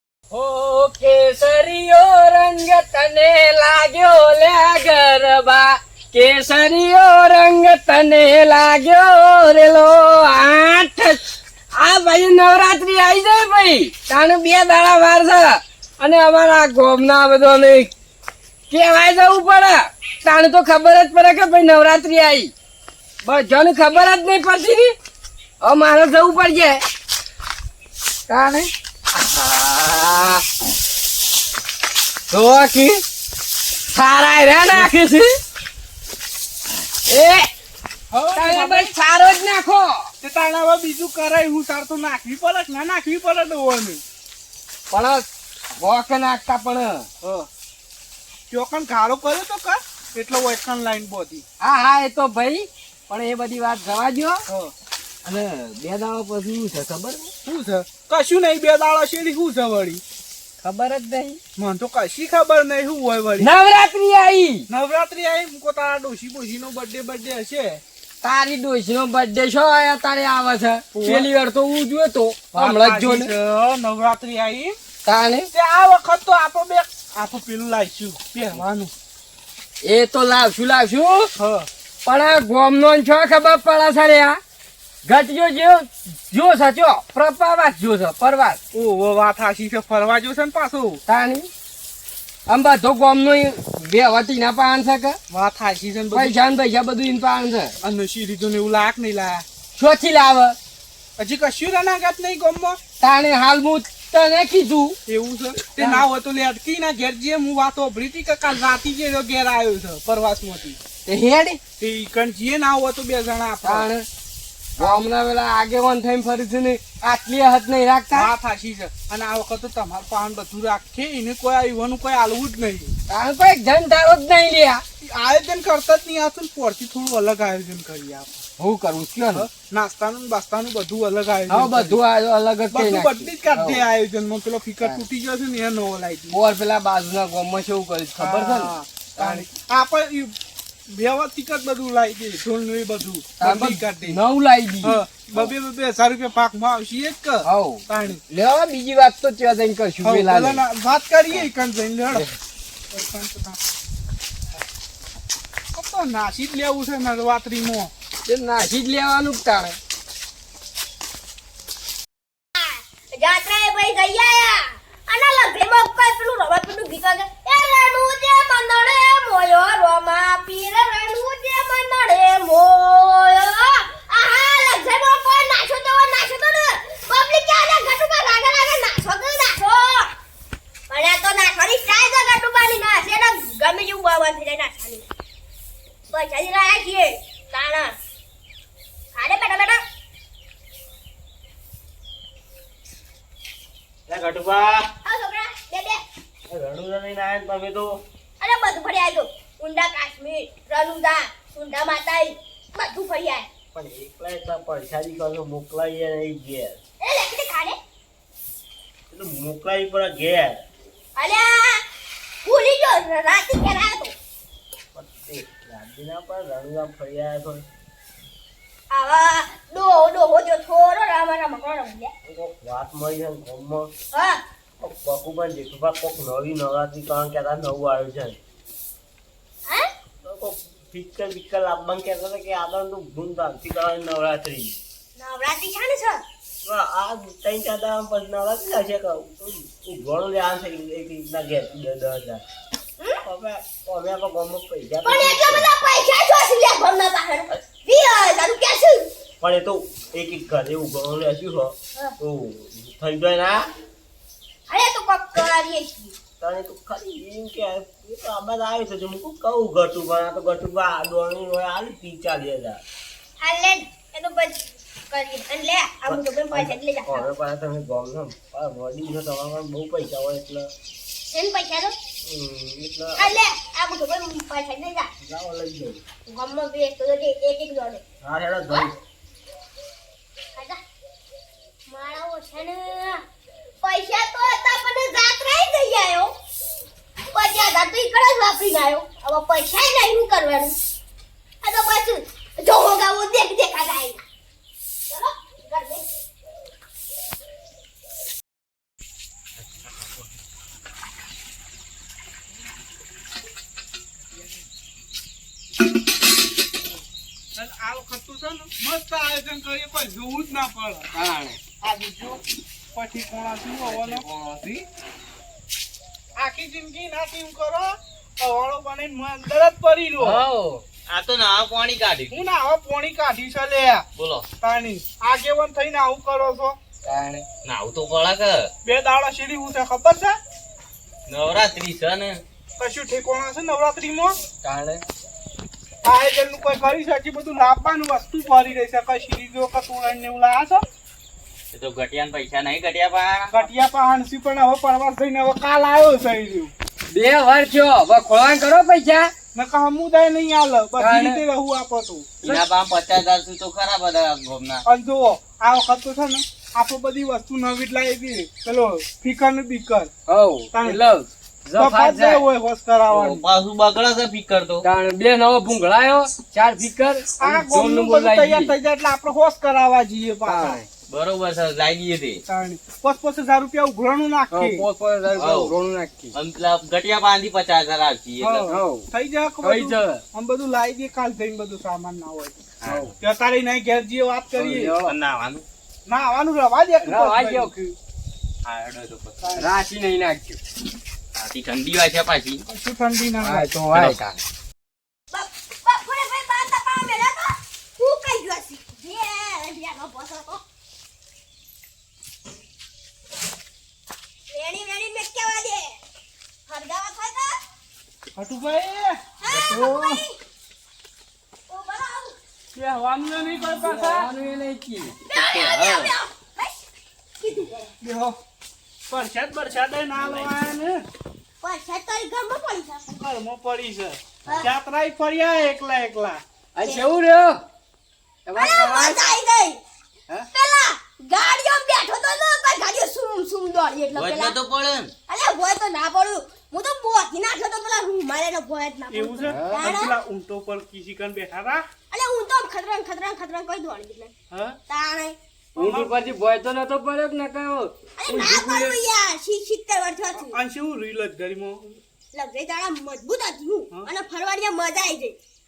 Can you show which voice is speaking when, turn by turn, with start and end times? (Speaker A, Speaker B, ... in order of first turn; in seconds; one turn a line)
Speaker A: 0.3-11.2
Speaker A: 11.7-17.9
Speaker A: 18.7-22.5
Speaker A: 23.2-24.9
Speaker A: 25.6-26.8
Speaker A: 28.3-30.4
Speaker A: 32.3-33.0
Speaker A: 33.9-35.3
Speaker A: 37.0-37.5
Speaker B: 38.1-38.9
Speaker A: 38.3-40.0
Speaker B: 40.2-44.0
Speaker A: 44.9-45.2
Speaker A: 45.8-47.1
Speaker B: 47.2-47.5
Speaker B: 48.5-51.4
Speaker A: 51.6-54.4
Speaker B: 54.5-54.7
Speaker A: 55.2-57.3
Speaker B: 57.4-60.0
Speaker A: 60.6-61.4
Speaker B: 61.5-63.5
Speaker A: 63.4-64.7
Speaker B: 64.7-67.8
Speaker A: 68.2-73.3
Speaker B: 70.9-71.3
Speaker B: 72.5-74.8
Speaker A: 75.0-75.5
Speaker B: 75.5-78.9
Speaker A: 79.8-81.3
Speaker B: 81.3-81.7
Speaker A: 82.0-84.4
Speaker A: 85.0-88.6
Speaker B: 88.7-91.0
Speaker A: 91.1-91.5
Speaker A: 92.5-95.2
Speaker B: 95.3-96.3
Speaker A: 96.1-97.7
Speaker B: 97.8-99.4
Speaker A: 99.7-100.6
Speaker B: 101.2-102.8
Speaker A: 103.0-105.0
Speaker B: 105.1-110.8
Speaker A: 105.8-106.0
Speaker A: 111.0-111.6
Speaker B: 111.8-113.9
Speaker A: 113.6-114.0
Speaker A: 114.8-118.3
Speaker B: 114.8-115.0
Speaker B: 118.1-122.9
Speaker A: 123.1-124.8
Speaker B: 125.0-128.4
Speaker A: 128.6-129.4
Speaker B: 129.3-132.0
Speaker A: 131.5-133.8
Speaker B: 132.7-136.4
Speaker A: 136.3-139.4
Speaker B: 138.2-140.3
Speaker B: 140.9-144.2
Speaker A: 143.4-145.5
Speaker B: 144.8-148.2
Speaker A: 147.4-150.6
Speaker B: 150.0-152.3
Speaker B: 152.9-153.6
Speaker B: 155.7-157.9
Speaker A: 158.2-159.8
Speaker C: 162.5-180.1
Speaker C: 180.9-185.0
Speaker C: 186.1-187.9
Speaker C: 189.1-189.8
Speaker D: 194.1-194.9
Speaker C: 195.0-196.0
Speaker D: 196.5-197.9
Speaker C: 198.4-203.5
Speaker D: 203.7-206.8
Speaker C: 207.0-207.8
Speaker D: 209.1-210.6
Speaker C: 211.2-211.8
Speaker C: 212.4-214.1
Speaker D: 214.9-217.7
Speaker C: 218.9-222.1
Speaker D: 222.2-223.9
Speaker C: 224.1-224.4
Speaker D: 224.8-228.4
Speaker D: 230.2-234.7
Speaker C: 235.2-236.2
Speaker D: 236.6-242.4
Speaker D: 243.2-245.7
Speaker C: 245.0-249.1
Speaker D: 249.4-253.7
Speaker C: 254.7-256.1
Speaker D: 256.4-262.8
Speaker C: 263.4-267.3
Speaker D: 266.1-270.7
Speaker C: 271.3-271.9
Speaker D: 272.2-273.4
Speaker C: 273.1-275.1
Speaker D: 275.2-276.0
Speaker C: 276.3-278.0
Speaker D: 278.2-278.9
Speaker C: 278.7-278.9
Speaker C: 281.9-283.2
Speaker C: 283.8-286.3
Speaker C: 287.3-290.8
Speaker C: 291.6-294.2
Speaker C: 295.1-296.1
Speaker B: 307.5-311.1
Speaker A: 311.1-311.6
Speaker B: 311.8-312.4
Speaker B: 312.9-314.2
Speaker E: 313.8-314.8
Speaker B: 316.4-320.4
Speaker A: 320.2-320.8
Speaker E: 321.1-322.4
Speaker B: 322.3-324.1
Speaker E: 324.1-324.5
Speaker B: 324.6-326.8
Speaker A: 327.0-327.4
Speaker E: 327.6-328.7
Speaker B: 328.8-330.4
Speaker E: 331.3-332.4
Speaker B: 332.8-334.4
Speaker A: 334.6-335.0
Speaker B: 336.0-340.9
Speaker E: 341.7-343.6
Speaker B: 343.5-346.7
Speaker A: 347.1-349.3
Speaker B: 349.5-352.4
Speaker A: 351.0-351.4
Speaker E: 352.4-354.8
Speaker B: 354.9-360.1
Speaker A: 360.3-362.4
Speaker B: 360.7-361.0
Speaker B: 361.8-363.4
Speaker E: 363.1-364.9
Speaker A: 364.8-368.7
Speaker B: 367.4-370.8
Speaker A: 370.4-370.9
Speaker E: 371.1-372.4
Speaker B: 372.4-374.8
Speaker A: 374.5-376.3
Speaker E: 375.4-375.7
Speaker E: 376.3-378.7
Speaker B: 378.4-382.6
Speaker A: 378.7-379.1
Speaker A: 379.6-380.2
Speaker E: 382.8-383.1
Speaker A: 382.9-383.1
Speaker B: 383.2-384.9
Speaker A: 384.6-385.2
Speaker E: 385.0-385.6
Speaker B: 386.1-387.7
Speaker A: 387.0-387.9
Speaker E: 388.6-389.7
Speaker A: 389.4-390.6
Speaker E: 391.3-392.6
Speaker B: 392.7-393.7
Speaker A: 393.4-394.4
Speaker E: 393.9-394.2
Speaker C: 395.3-400.6
Speaker C: 404.5-406.0
Speaker C: 406.7-407.6
Speaker B: 408.3-409.7
Speaker C: 409.4-410.4
Speaker A: 409.5-410.2
Speaker C: 411.7-412.4
Speaker B: 412.7-414.3
Speaker A: 413.8-415.1
Speaker C: 415.3-416.7
Speaker E: 415.3-416.1
Speaker C: 417.4-417.9
Speaker B: 418.0-418.4
Speaker B: 419.1-421.1
Speaker E: 420.2-420.6
Speaker C: 421.6-423.0
Speaker B: 423.1-426.4
Speaker A: 426.7-427.6
Speaker C: 426.8-427.1
Speaker A: 428.4-429.2
Speaker C: 428.6-429.8
Speaker C: 430.5-434.6
Speaker E: 434.1-435.1
Speaker C: 435.3-440.1
Speaker B: 439.1-441.8
Speaker A: 439.4-439.9
Speaker C: 442.1-444.3
Speaker B: 444.5-444.8
Speaker C: 444.9-445.4
Speaker A: 445.7-449.0
Speaker B: 445.8-446.1
Speaker C: 448.2-450.6
Speaker B: 450.4-452.0
Speaker C: 452.3-455.4